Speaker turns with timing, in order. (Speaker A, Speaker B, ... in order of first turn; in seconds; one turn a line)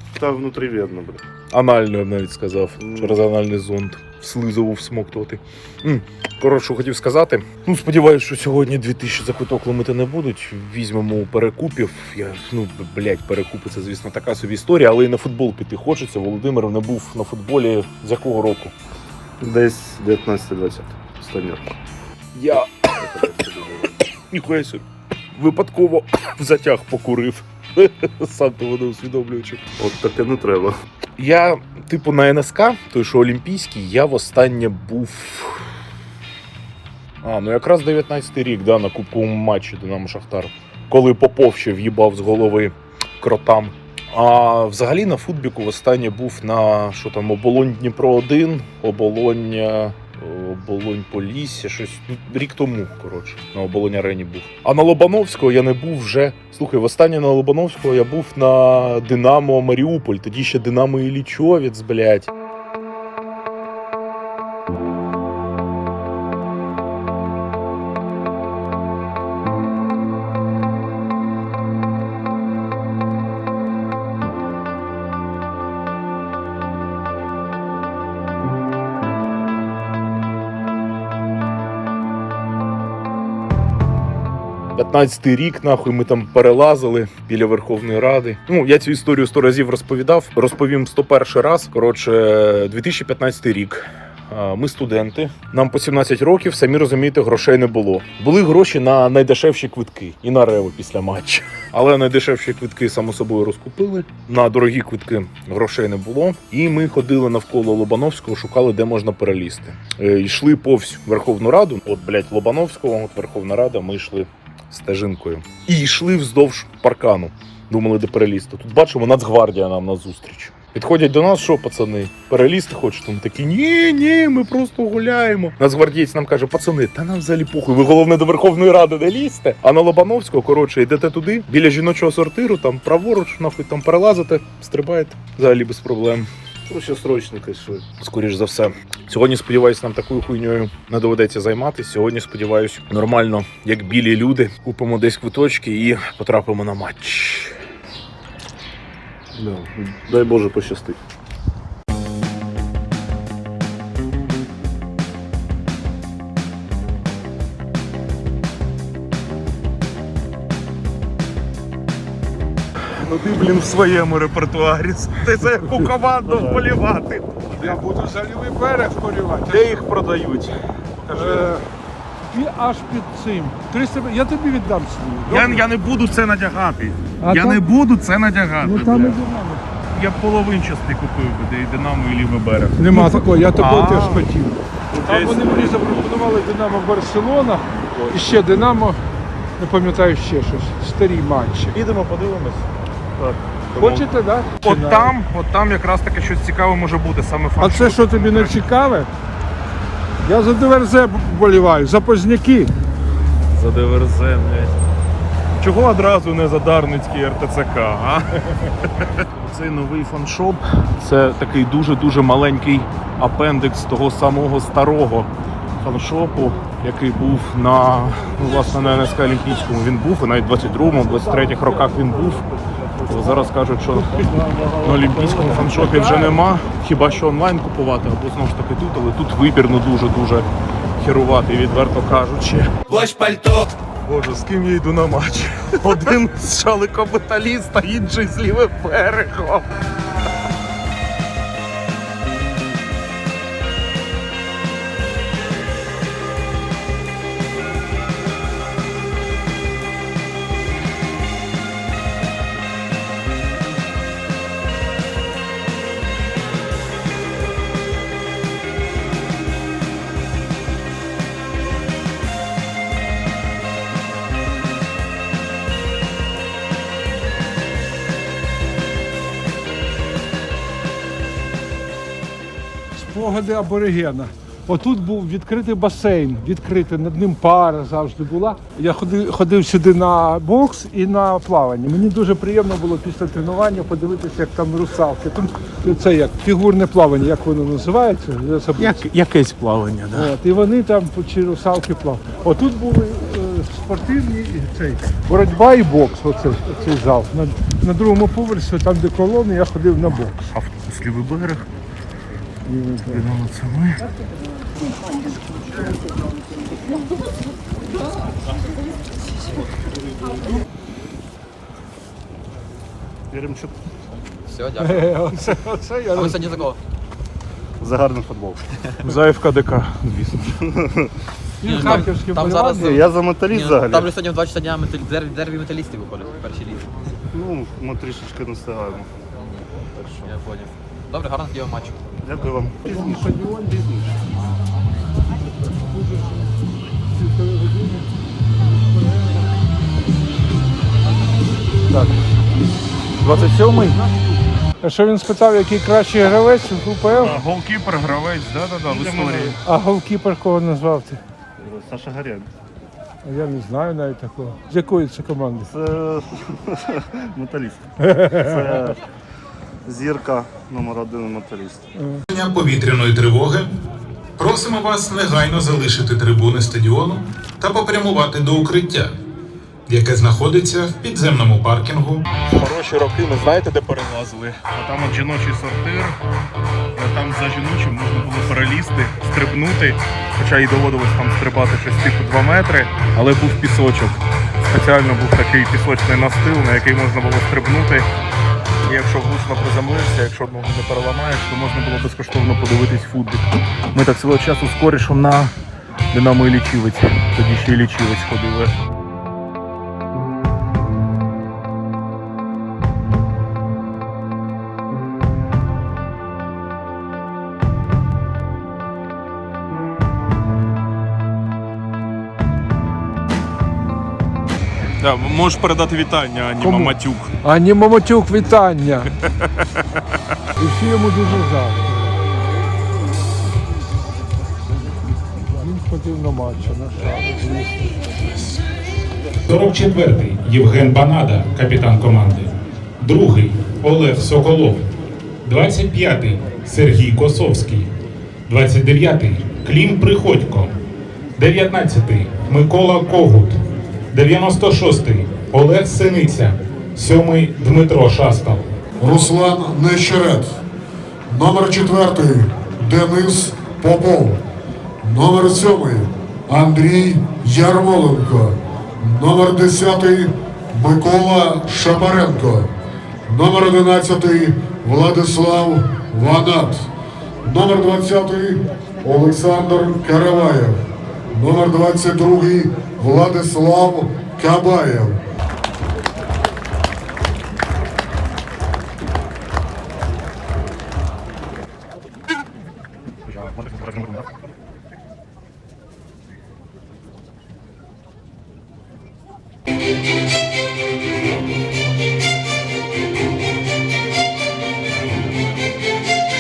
Speaker A: 0.2-1.2
Speaker B: 1.5-18.7
Speaker A: 2.8-3.1
Speaker A: 19.4-21.8
Speaker B: 22.3-23.0
Speaker A: 22.5-24.0
Speaker B: 24.3-24.8
Speaker B: 25.3-29.6
Speaker A: 29.8-30.8
Speaker B: 31.2-35.7
Speaker B: 37.2-62.3
Speaker B: 84.8-136.3
Speaker A: 136.6-137.8
Speaker B: 138.0-147.6
Speaker A: 149.3-151.0
Speaker B: 163.0-167.8
Speaker A: 166.2-166.6
Speaker C: 167.6-169.8
Speaker B: 169.5-171.5
Speaker C: 171.1-171.6
Speaker C: 172.3-175.6
Speaker B: 175.3-179.2
Speaker C: 177.2-177.7
Speaker C: 178.6-179.6
Speaker B: 179.9-184.2
Speaker C: 182.8-189.0
Speaker B: 184.9-186.1
Speaker B: 187.9-188.4
Speaker C: 189.6-191.8
Speaker B: 191.7-192.7
Speaker A: 193.2-193.4
Speaker B: 193.8-198.6
Speaker C: 193.8-195.1
Speaker C: 197.6-199.1
Speaker C: 200.2-202.7
Speaker B: 203.5-204.8
Speaker B: 205.6-222.4
Speaker A: 222.7-223.5
Speaker B: 223.1-230.5
Speaker A: 224.0-226.3
Speaker B: 231.0-239.7
Speaker C: 272.9-289.0
Speaker B: 288.8-290.4
Speaker C: 290.1-300.4
Speaker B: 300.1-301.6
Speaker C: 302.6-303.2
Speaker B: 303.1-304.0
Speaker A: 313.3-313.8
Speaker D: 314.4-315.2
Speaker C: 314.8-316.7
Speaker D: 316.1-316.8
Speaker A: 317.8-318.7
Speaker B: 319.0-320.6
Speaker A: 320.6-321.1
Speaker C: 321.6-323.0
Speaker D: 321.6-327.0
Speaker A: 322.8-324.1
Speaker A: 327.3-329.1
Speaker D: 330.0-332.0
Speaker A: 332.2-334.1
Speaker C: 332.9-333.9
Speaker C: 337.2-338.1
Speaker C: 341.9-342.2
Speaker B: 343.2-343.9
Speaker C: 343.2-347.4
Speaker B: 347.2-349.6
Speaker A: 348.9-349.6
Speaker C: 349.6-351.2
Speaker A: 351.6-352.5
Speaker C: 353.2-355.7
Speaker A: 355.7-359.0
Speaker C: 358.0-358.8
Speaker A: 359.9-361.9
Speaker C: 362.0-362.2
Speaker E: 362.3-363.7
Speaker E: 364.4-369.1
Speaker E: 369.9-372.2
Speaker B: 372.5-376.2
Speaker B: 377.0-388.1
Speaker B: 388.9-395.5
Speaker B: 396.1-398.7
Speaker B: 415.0-417.3
Speaker C: 416.6-419.1
Speaker B: 419.4-419.6
Speaker C: 420.6-422.1
Speaker C: 425.5-428.0
Speaker E: 429.4-434.8
Speaker E: 435.4-437.9
Speaker E: 438.5-440.7
Speaker E: 441.4-443.6
Speaker E: 444.1-448.6
Speaker F: 449.0-450.6
Speaker F: 451.3-454.4
Speaker F: 455.0-462.7
Speaker F: 463.3-466.9
Speaker F: 467.4-475.2
Speaker B: 483.3-484.1